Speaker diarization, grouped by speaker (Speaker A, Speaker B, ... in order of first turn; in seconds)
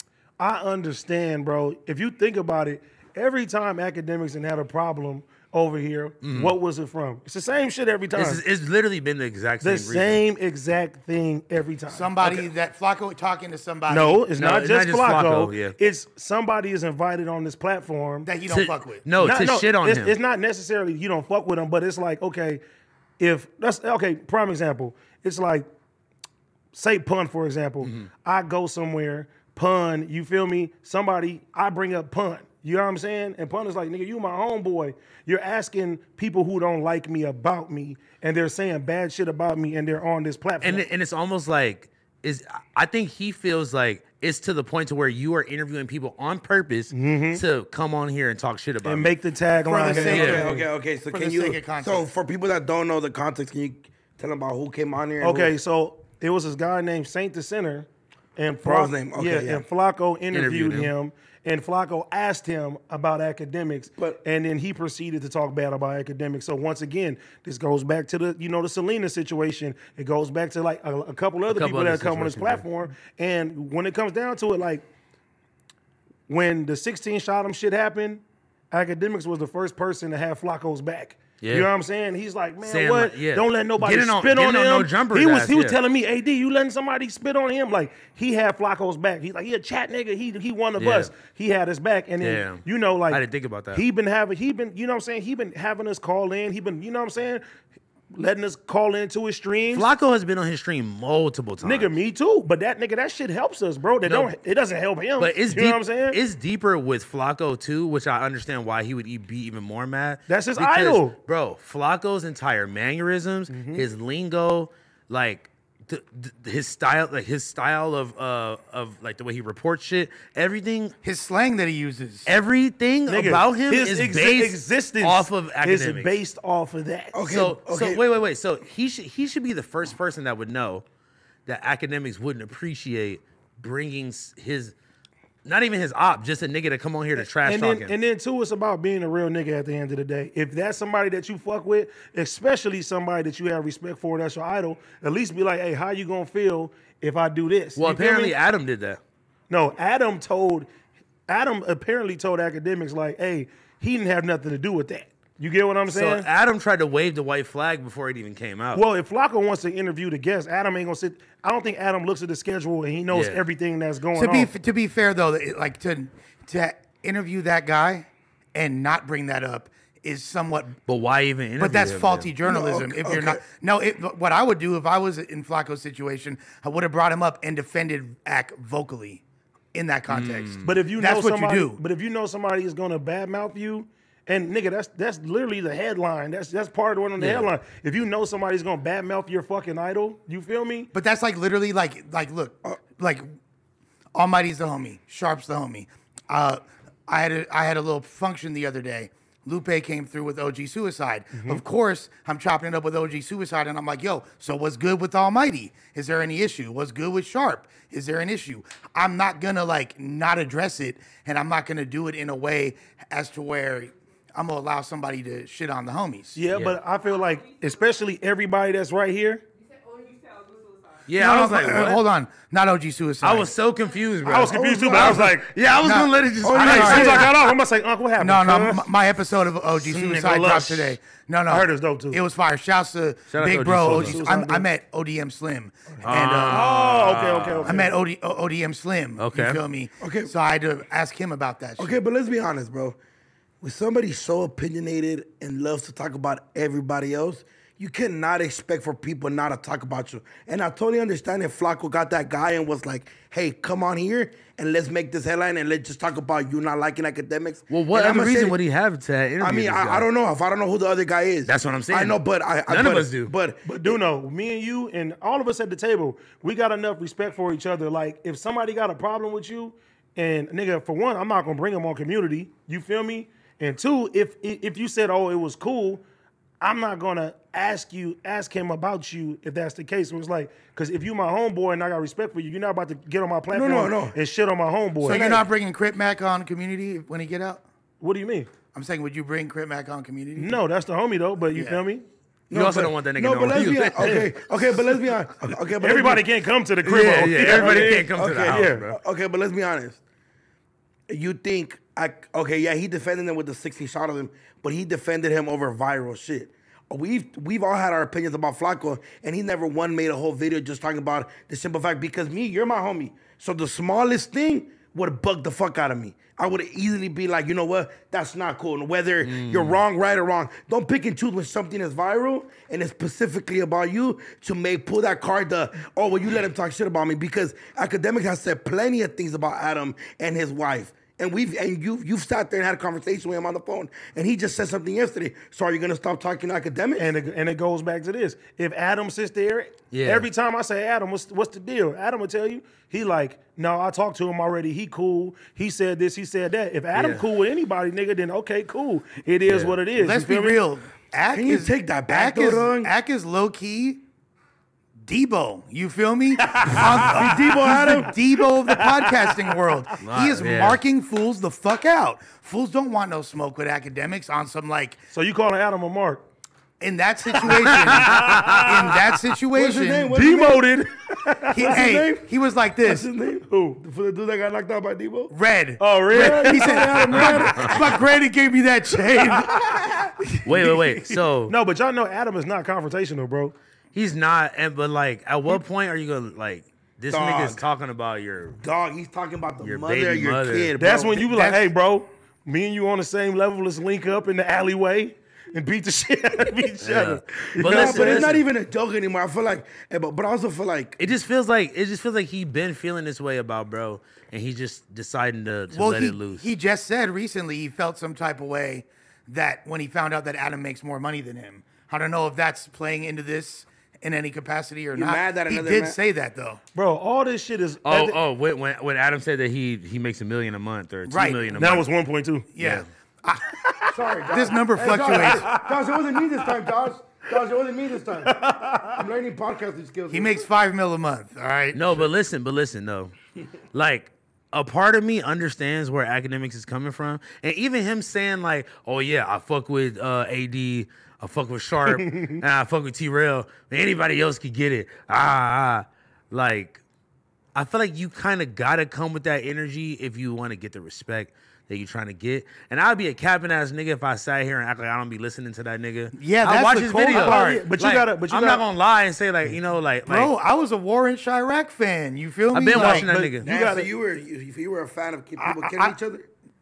Speaker A: 0.4-8.4, 9.6-12.5, 13.9-18.3, 19.1-22.6, 23.2-25.7, 26.7-40.9, 46.9-47.4, 48.8-50.6, 55.2-74.9, 76.3-93.2, 93.7-97.4, 98.1-99.9, 101.6-106.2, 110.3-111.2, 113.5-113.8, 123.1-127.2, 137.2-148.3, 149.5-150.7, 151.3-156.3, 158.7-164.5, 180.6-190.9, 201.3-201.6, 216.3-219.4, 224.2-225.5, 226.5-228.8, 229.8-231.0, 231.5-232.2, 233.8-234.7, 236.5-237.9, 263.6-276.0, 276.6-285.3, 288.0-288.5, 290.4-292.1, 293.6-294.3, 295.8-298.9, 337.0-350.6, 356.6-357.2, 357.9-359.3, 365.1-366.2, 367.4-369.0, 370.1-371.8, 373.5-373.8, 375.8-377.4, 381.4-383.5, 390.8-398.3, 416.7-418.2, 421.5-422.5, 424.9-425.8, 428.2-429.0, 441.9-442.2, 457.1-458.7, 462.7-463.9
Speaker B: 6.2-6.5, 8.1-10.2, 14.4-15.8, 18.5-20.2, 27.8-28.1, 40.6-49.1, 50.0-50.5, 60.3-60.9, 71.5-72.7, 81.4-81.7, 82.6-85.8, 90.8-91.1, 92.2-93.8, 99.7-101.9, 104.0-104.4, 105.2-120.9, 122.2-126.2, 127.3-130.8, 131.5-134.7, 135.4-137.9, 147.8-149.0, 155.9-158.8, 163.1-163.4, 170.9-172.3, 180.1-180.8, 187.2-187.5, 216.5-216.8, 221.1-222.0, 223.2-227.3, 233.3-234.2, 236.0-237.8, 239.2-239.6, 257.7-260.1, 261.4-263.3, 292.5-294.2, 296.8-299.0, 319.2-319.8, 339.9-340.3, 346.9-347.2, 349.4-349.8, 360.0-360.8, 367.5-368.7, 377.1-377.9, 380.4-381.5, 383.9-388.6, 389.6-390.8, 396.8-398.4, 401.0-406.5, 417.8-421.9, 422.6-422.9, 431.7-433.1, 433.7-446.8, 447.5-460.3, 462.5-463.4
Speaker C: 11.9-14.2, 18.2-19.0, 49.7-52.1, 121.0-122.3, 164.2-170.8, 171.6-179.2, 179.7-181.8, 190.9-193.3, 194.2-216.4, 221.2-223.5, 225.8-227.3, 228.2-236.7, 237.7-242.0, 285.0-287.6, 288.7-290.6, 291.5-291.8, 349.9-354.0, 355.0-365.0, 366.8-370.1, 371.5-373.1, 375.3-380.9, 391.2-391.7, 405.7-416.6, 421.1-421.5, 422.5-425.5, 430.1-432.1, 456.1-457.6, 460.1-463.1, 465.4-466.0
Speaker D: 49.9-55.5, 58.6-59.6, 127.1-128.0, 172.4-173.4, 224.4-225.3, 226.4-227.2, 240.0-240.3, 241.8-243.0, 243.6-258.6, 259.4-264.0, 283.5-284.2, 285.1-285.4, 292.5-296.2, 297.3-300.0, 301.1-337.1, 351.3-352.9, 356.7-358.1, 369.5-370.7, 371.6-372.3, 372.8-375.3, 376.1-377.8, 387.1-387.6, 388.6-391.2, 397.6-401.0, 414.9-416.0, 423.9-430.4, 463.4-466.3